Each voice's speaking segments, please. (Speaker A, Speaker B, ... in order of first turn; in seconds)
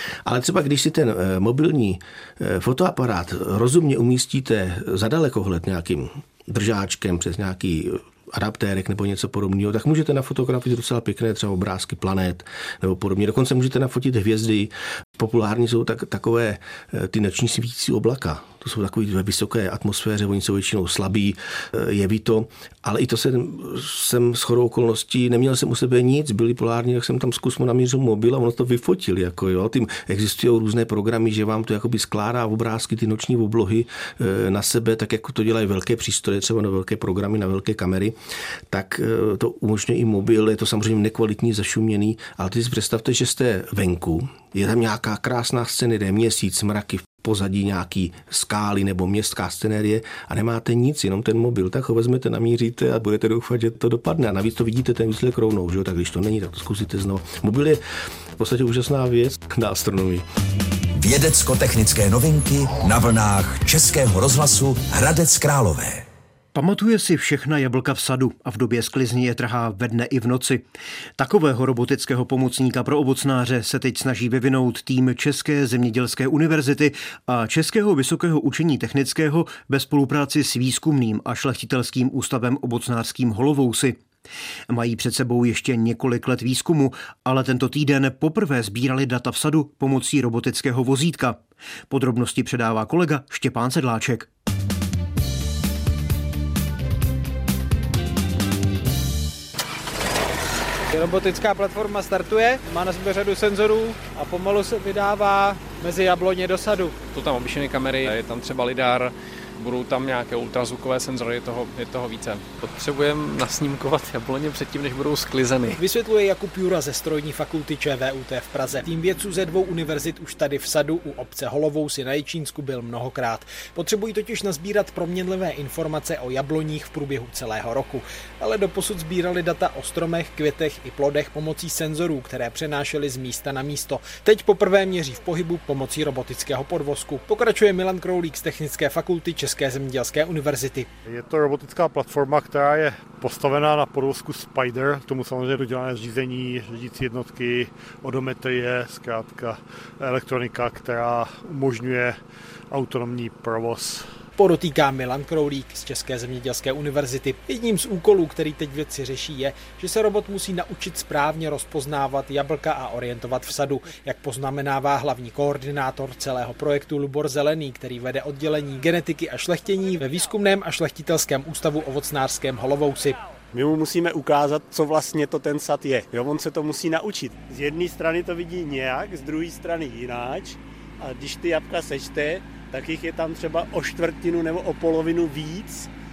Speaker A: 0.2-38.1, 38.7-57.8, 58.4-60.2
Speaker B: 61.0-66.0
Speaker C: 66.5-70.6, 71.2-84.0, 84.7-94.3
Speaker D: 100.9-106.9, 115.8-140.9, 154.4-173.2
Speaker E: 107.1-115.8
Speaker F: 141.1-152.2, 152.7-154.0
Speaker G: 173.5-185.9